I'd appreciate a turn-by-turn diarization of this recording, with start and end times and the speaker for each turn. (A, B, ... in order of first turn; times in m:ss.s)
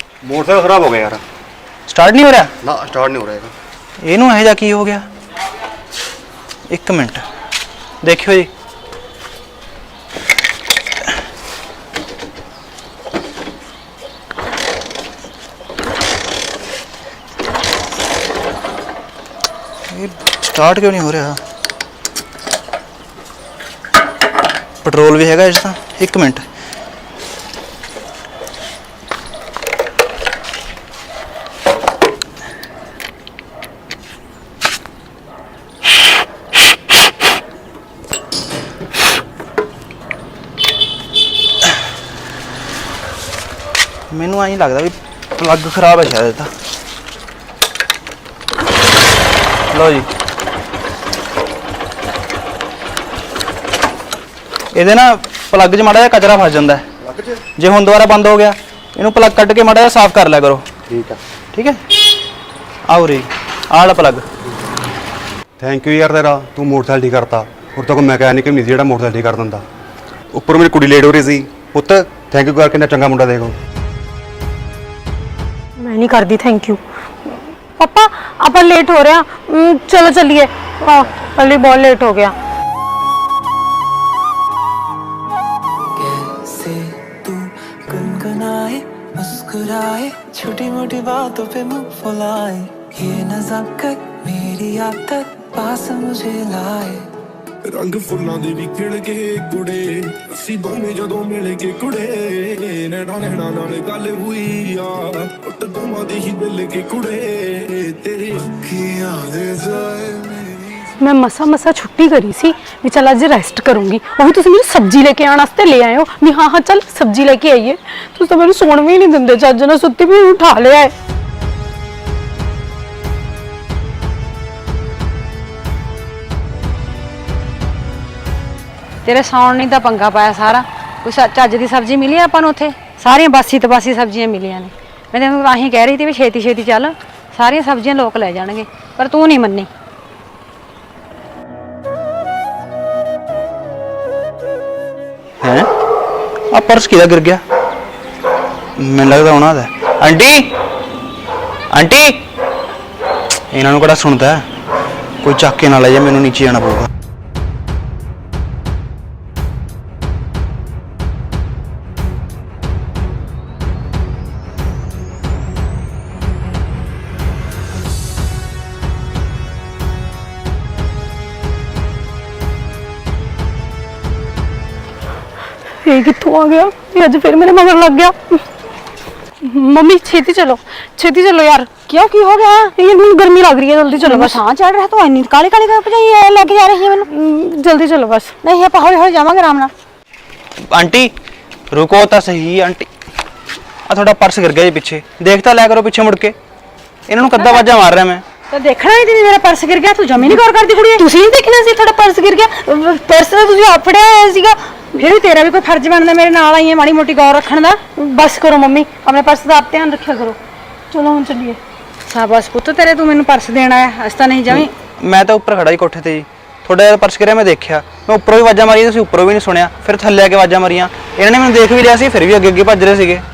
0:00.2-0:01.2 A
0:01.9-0:02.5 B
0:02.6-0:03.5 A
0:04.0-0:05.1 B
0:06.7-0:07.3 B
0:08.0-0:08.5 B
0:19.9-0:21.4 B
0:24.8-0:26.5 B
0:44.1-0:46.5 B
0:49.7-0:50.1 B
0:54.7-0:56.9 B
0:57.0-0:57.4 A
0:57.6-1:00.7 B
1:00.9-1:01.2 A
1:01.5-1:01.8 B
1:02.9-1:04.3 B
1:05.6-1:09.6 A
1:10.3-1:13.6 A
1:15.8-1:22.4 C
1:26.0-1:37.1 D
1:37.7-1:50.9 E
1:51.0-2:00.9 C
2:09.0-2:19.7 F
2:25.4-2:25.7 B
2:26.5-2:27.4 B
2:28.8-2:30.5 B
2:31.7-2:32.2 B
2:33.5-2:34.5 B
2:35.2-2:36.9 B
2:55.8-2:58.4 C
2:59.4-3:01.8 C
3:01.9-3:02.7 F
3:02.8-3:04.4 C
3:04.0-3:07.1 F
3:07.1-3:08.4 C
3:08.4-3:09.7 F
3:10.6-3:11.1 B
3:11.7-3:12.9 B
3:13.8-3:16.4 B
3:17.1-3:18.2 B
3:18.5-3:21.0 F
3:20.9-3:24.6 C
3:25.0-3:27.8 F
3:28.0-3:30.4 C
3:30.9-3:31.6 C
3:32.1-3:34.7 F
3:34.5-3:43.2 B